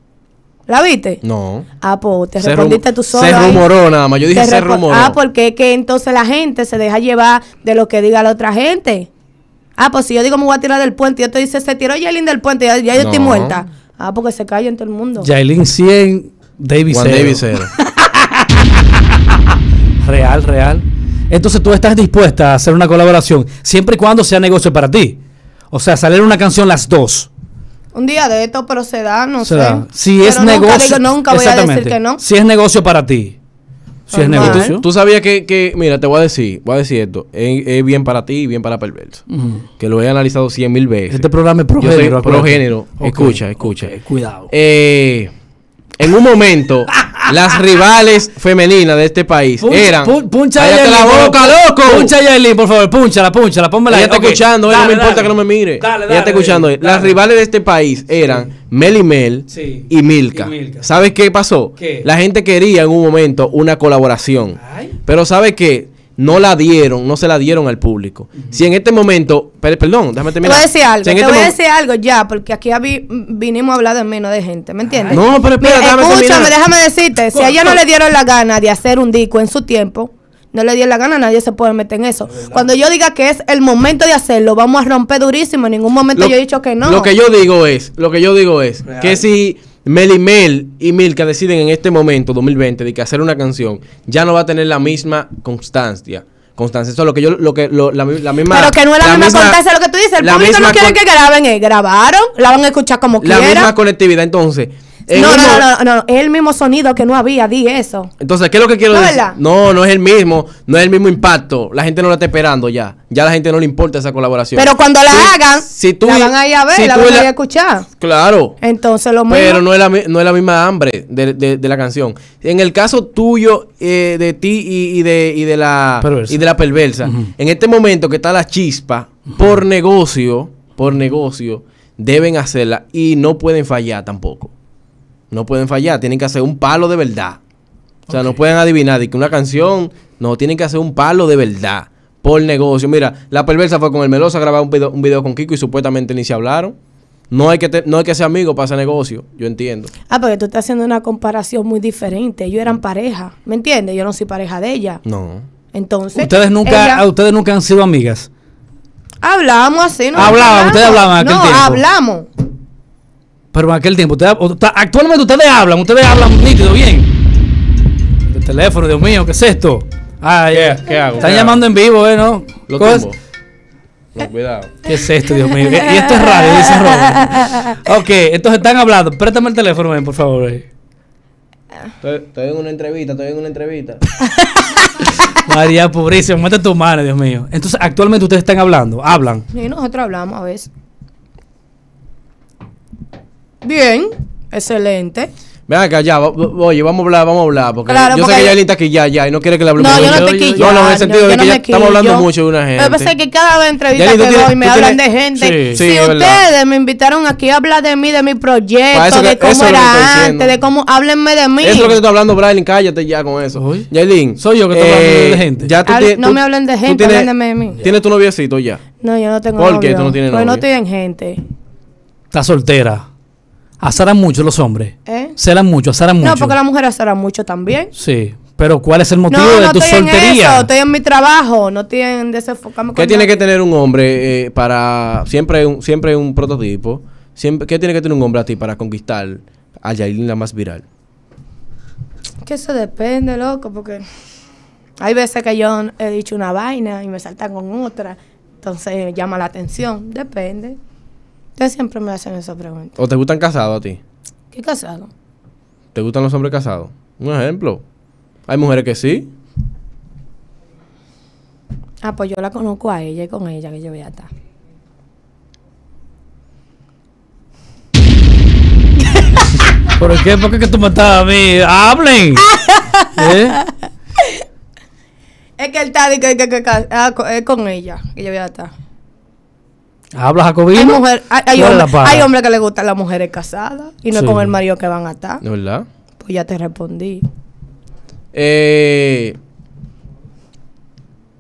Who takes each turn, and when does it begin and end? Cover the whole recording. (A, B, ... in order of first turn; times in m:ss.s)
0:00.7-0:01.2 A
0:01.2-0:01.7 B
0:01.8-0:03.6 A
0:02.4-0:05.2 B
0:04.3-0:09.1 A
0:09.8-0:15.3 A
0:13.0-0:13.6 B
0:15.2-0:18.8 C
0:16.9-0:17.7 B
0:20.0-0:25.2 C
0:25.7-0:27.3 C
0:27.9-0:32.2 A
0:29.4-0:33.4 C
0:34.1-0:34.8 C
0:34.1-0:34.8 A
0:34.3-0:39.3 B
0:39.3-0:39.6 C
0:39.8-0:44.0 B
0:41.1-0:44.5 C
0:44.5-0:45.3 B
0:46.0-0:52.2 B
0:49.6-0:57.2 C
0:53.9-1:11.5 B
0:58.1-0:58.5 C
0:59.5-1:01.0 C
1:01.8-1:02.1 C
1:04.6-1:04.9 C
1:10.4-1:27.1 A
1:14.9-1:15.2 C
1:15.1-1:16.5 B
1:17.3-1:17.8 C
1:26.2-1:39.6 B
1:28.9-1:29.2 C
1:38.5-1:43.7 A
1:40.2-1:41.0 B
1:43.2-1:45.6 B
1:45.1-1:48.1 A
1:48.2-1:57.3 B
1:48.9-1:49.4 A
1:54.6-1:57.9 A
1:58.0-1:58.6 B
1:58.6-1:59.6 A
1:59.3-2:14.5 B
2:06.0-2:06.4 C
2:07.0-2:07.3 C
2:15.3-2:17.4 B
2:18.1-2:18.4 C
2:18.1-2:26.8 B
2:27.3-2:29.9 B
2:30.1-2:35.0 A
2:35.0-2:35.5 B
2:35.7-2:37.0 A
2:36.2-2:38.3 C
2:39.2-2:42.3 A
2:40.1-2:41.8 C
2:43.5-2:47.1 C
2:48.3-2:53.0 C
2:50.5-2:51.6 B
2:52.7-2:53.2 B
2:54.2-2:54.9 B
2:54.8-3:00.6 C
2:55.6-2:57.7 A
3:02.0-3:04.0 B
3:04.4-3:04.9 A
3:05.2-3:09.4 C
3:09.5-3:10.7 A
3:13.6-3:15.3 A
3:15.7-3:23.1 B
3:17.9-3:18.6 A
3:19.8-3:32.0 A
3:19.8-3:20.7 C
3:23.9-3:25.0 B
3:25.4-3:25.8 C
3:25.7-3:26.4 B
3:28.9-3:30.5 B
3:31.6-3:38.8 B
3:33.6-3:33.9 C
3:34.4-3:35.7 C
3:35.9-3:37.8 A
3:39.0-3:41.4 A
3:39.6-3:40.6 B
3:42.3-3:43.1 C
3:43.8-3:46.6 C
3:45.0-3:45.4 A
3:46.2-3:47.9 A
3:48.0-3:50.7 C
3:49.3-3:53.4 A
3:53.0-4:00.8 B
4:02.4-4:04.0 A
4:05.0-4:10.8 A
4:11.6-4:12.9 A
4:13.0-4:14.0 B
4:14.5-4:15.1 A
4:15.9-4:17.8 B
4:18.5-4:19.3 B
4:22.0-4:24.3 A
4:30.0-4:32.5 C
4:32.5-4:33.7 A
4:33.2-4:33.6 C
4:35.6-4:38.7 A
4:40.1-4:41.0 C
4:40.7-4:45.4 A
4:41.5-4:42.3 C
4:44.1-4:44.5 C
4:45.4-4:45.8 B
4:46.2-4:47.2 A
4:48.3-4:49.4 B